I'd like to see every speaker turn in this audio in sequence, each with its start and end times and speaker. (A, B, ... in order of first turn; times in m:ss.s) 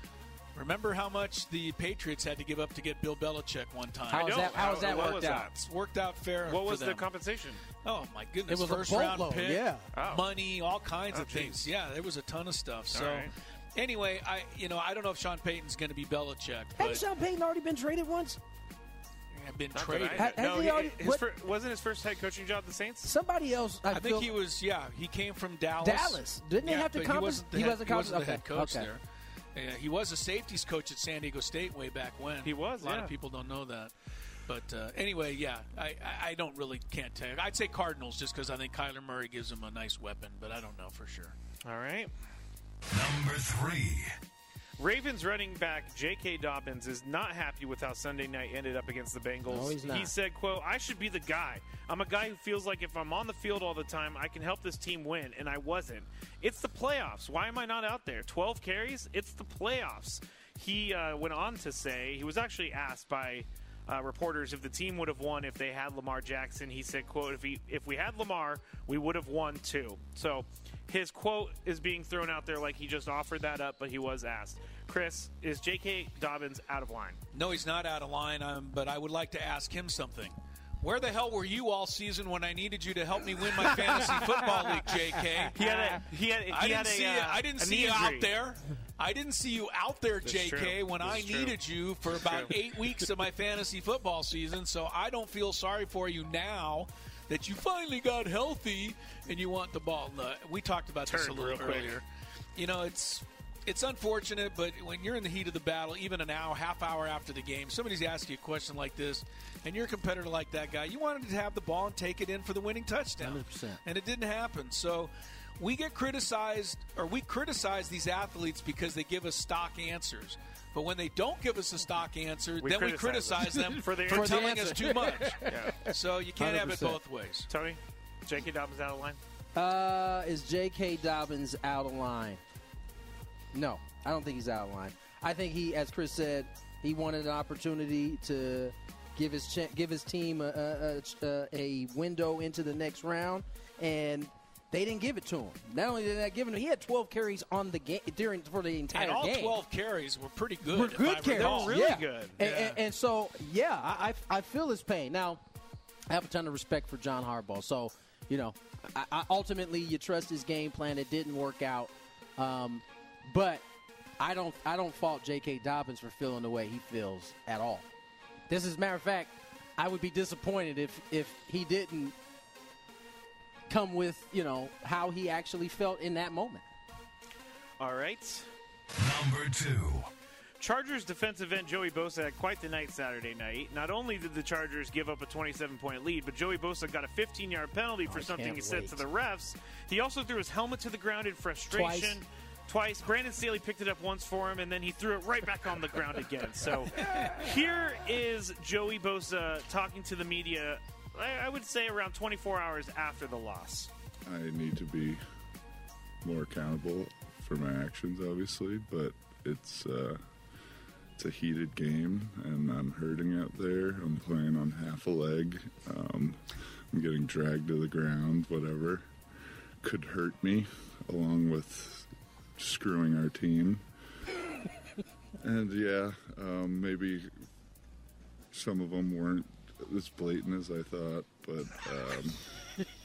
0:00.6-0:07.1 A
0:04.1-0:05.5 B
0:04.1-0:05.7 C
0:06.5-0:07.6 C
0:07.8-0:17.0 A
0:08.5-0:09.9 B
0:09.9-0:10.3 C
0:11.1-0:11.6 C
0:12.9-0:13.3 C
0:16.8-0:18.4 B
0:19.4-0:20.4 A
0:19.7-0:23.1 C
0:20.1-0:21.2 B
0:23.0-0:24.3 B
0:23.9-0:29.0 A
0:25.8-0:28.9 B
0:29.6-0:33.9 A
0:32.4-0:33.1 C
0:34.5-0:41.3 A
0:41.6-0:42.1 C
0:42.9-0:44.1 D
0:44.8-1:17.2 C
0:49.5-0:50.1 B
1:17.3-1:42.0 A
1:25.5-1:28.3 C
1:30.2-1:31.6 C
1:32.1-1:32.5 C
1:41.1-1:42.0 C
1:42.6-2:07.5 A
1:53.2-1:53.8 B
2:02.6-2:04.7 C
2:04.1-2:07.0 B
2:05.4-2:05.8 C
2:07.5-2:09.2 C
2:09.6-2:12.4 B
2:13.5-2:29.6 B
2:28.9-2:32.8 A
2:30.7-2:35.4 B
2:31.3-2:32.4 C
2:36.1-2:43.6 B
2:44.2-2:47.9 B
2:48.5-2:52.2 B
2:53.7-2:56.6 B
2:57.8-2:58.5 C
2:59.0-3:00.1 D
3:00.6-3:23.9 C
3:08.0-3:09.0 B
3:11.7-3:12.2 B
3:24.3-3:25.2 E
3:26.2-3:30.2 E
3:31.2-3:39.1 E
3:39.8-3:43.9 E
3:45.4-3:47.3 E
3:48.5-3:52.4 E